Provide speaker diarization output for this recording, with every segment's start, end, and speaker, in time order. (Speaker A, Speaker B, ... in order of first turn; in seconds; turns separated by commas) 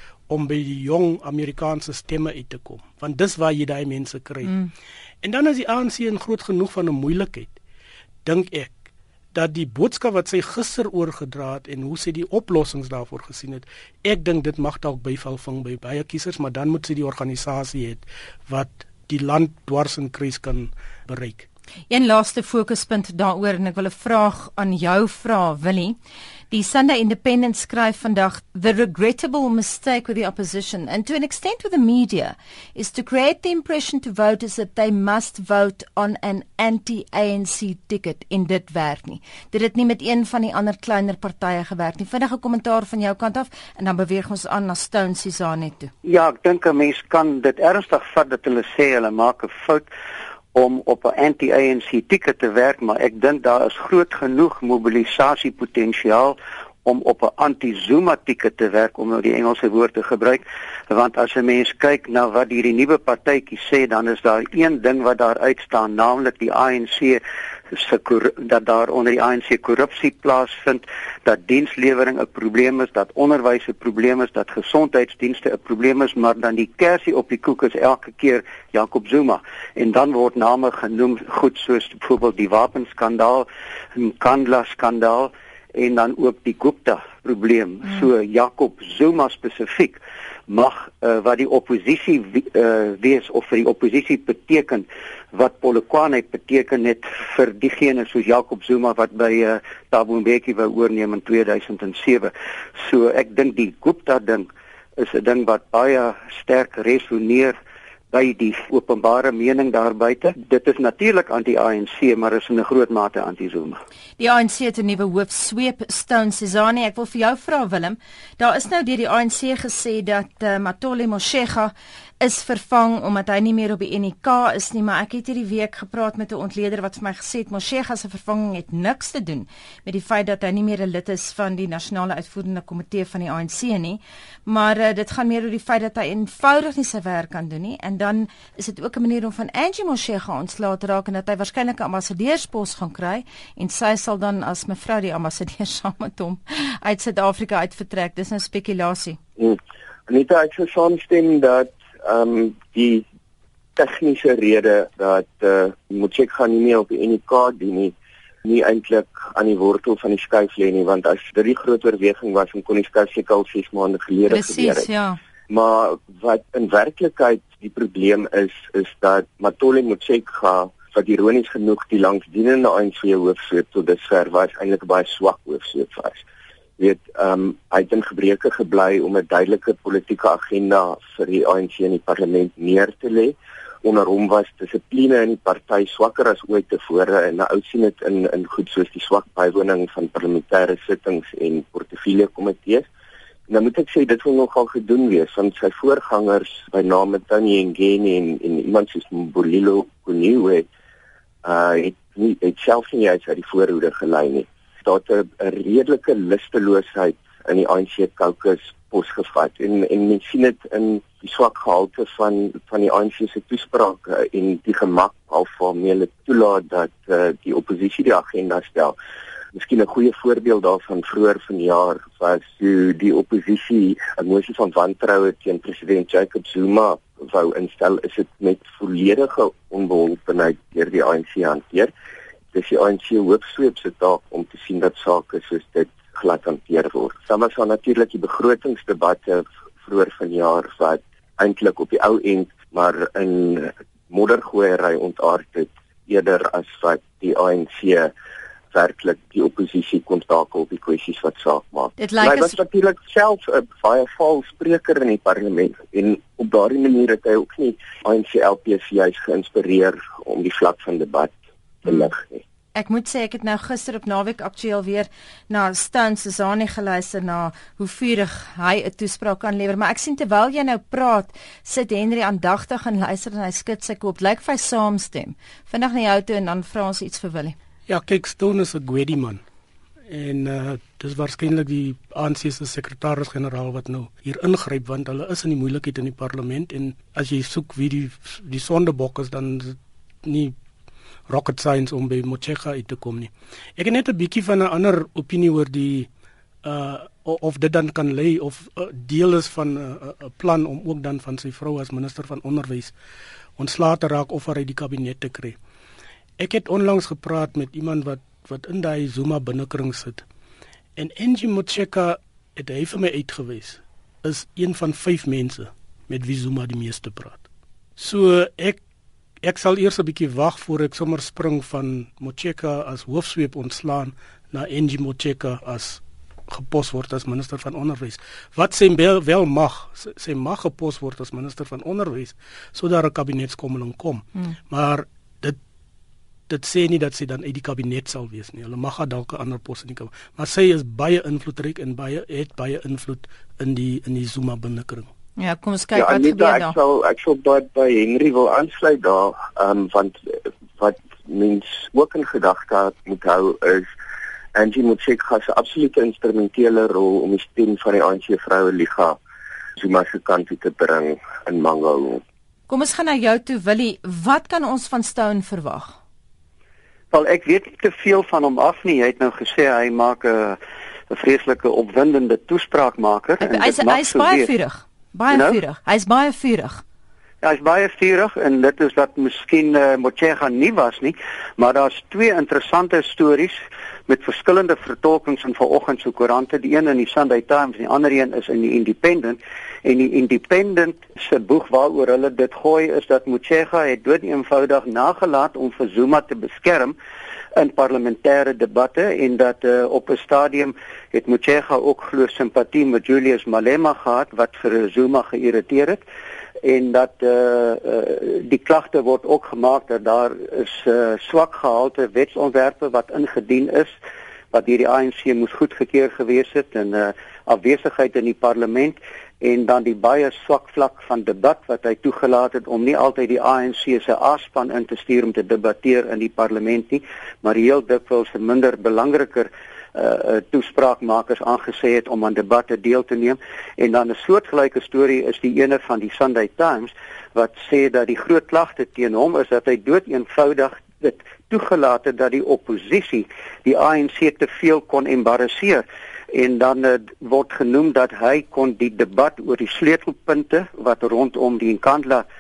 Speaker A: 0.3-4.7, Speaker A: 5.2-7.5, Speaker A: 8.2-8.8, Speaker A: 9.3-21.5, Speaker B: 21.9-26.0, Speaker B: 26.5-45.9, Speaker C: 46.0-49.9, Speaker C: 50.5-107.6, Speaker C: 108.1-113.8, Speaker B: 114.2-149.2, Speaker D: 149.4-153.1, Speaker D: 153.8-164.9, Speaker B: 164.3-165.2, Speaker D: 165.5-176.2, Speaker D: 176.8-192.9, Speaker D: 193.5-200.7, Speaker D: 201.4-218.9, Speaker D: 219.5-231.9, Speaker D: 232.5-248.1, Speaker D: 248.7-261.3, Speaker B: 252.0-252.6, Speaker D: 261.8-262.4, Speaker B: 262.8-277.6, Speaker A: 277.9-279.4, Speaker A: 280.1-290.6, Speaker A: 291.3-296.1, Speaker A: 296.6-302.9, Speaker A: 303.6-305.6, Speaker A: 306.4-310.2, Speaker A: 311.0-317.4, Speaker A: 318.0-318.8, Speaker A: 319.4-335.6, Speaker A: 336.5-345.1, Speaker B: 345.4-346.7, Speaker D: 345.9-353.9, Speaker D: 354.6-359.2, Speaker D: 359.8-362.2, Speaker B: 362.7-366.0, Speaker C: 367.1-370.6, Speaker C: 371.1-374.5, Speaker B: 373.4-376.8, Speaker C: 375.3-375.6, Speaker C: 377.4-396.9, Speaker C: 397.6-406.0, Speaker C: 406.6-413.9, Speaker C: 414.5-452.3